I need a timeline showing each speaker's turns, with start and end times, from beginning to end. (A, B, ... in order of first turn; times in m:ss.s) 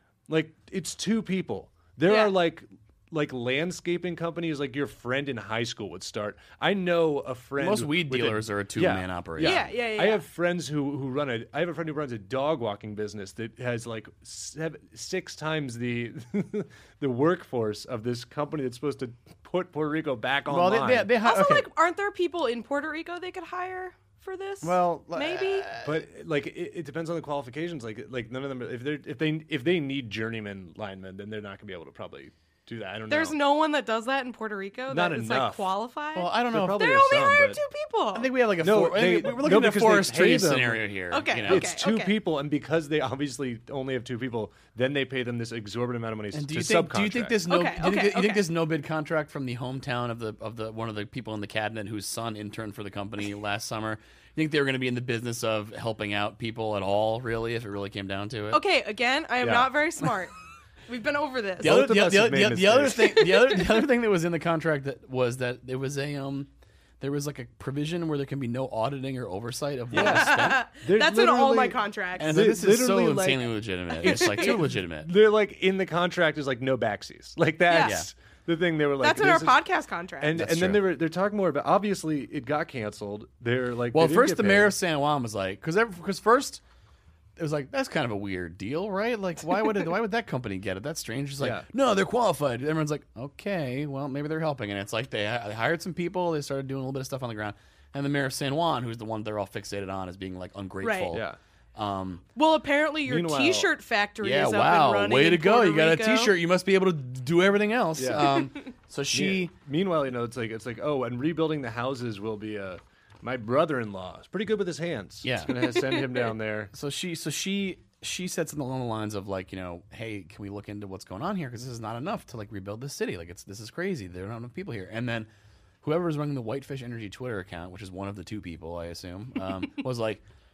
0:00.3-0:21.1 A
0:02.1-0:02.4 B
0:07.6-0:09.7 C
0:09.4-0:10.2 B
0:20.5-0:21.7 C
0:21.2-0:25.7 B
0:24.6-0:26.1 C
0:25.8-0:33.4 A
0:33.1-0:38.3 B
0:34.9-0:35.7 A
0:36.2-0:37.4 C
0:36.5-0:37.6 A
0:38.1-0:41.7 C
0:38.6-0:40.9 A
0:41.1-0:42.2 B
0:41.4-0:47.4 A
0:46.3-0:58.6 C
0:47.5-0:48.4 B
0:58.5-1:00.3 B
0:59.4-0:59.7 A
1:00.9-1:01.8 B
1:01.6-1:03.3 A
1:01.6-1:10.6 C
1:09.9-1:12.4 B
1:10.0-1:19.6 A
1:12.2-1:15.1 C
1:14.0-1:14.6 B
1:17.7-1:18.0 B
1:17.8-1:18.1 C
1:19.0-1:20.4 B
1:20.2-1:24.7 A
1:20.4-1:20.8 C
1:23.9-1:26.6 C
1:27.4-1:42.2 C
1:31.4-1:31.7 A
1:40.8-1:41.2 B
1:41.1-1:41.4 A
1:42.4-1:46.4 B
1:43.0-1:43.7 A
1:44.2-1:49.5 C
1:48.0-1:48.4 A
1:49.1-1:56.7 A
1:55.2-1:55.6 C
1:56.7-2:05.3 C
2:05.8-2:10.2 C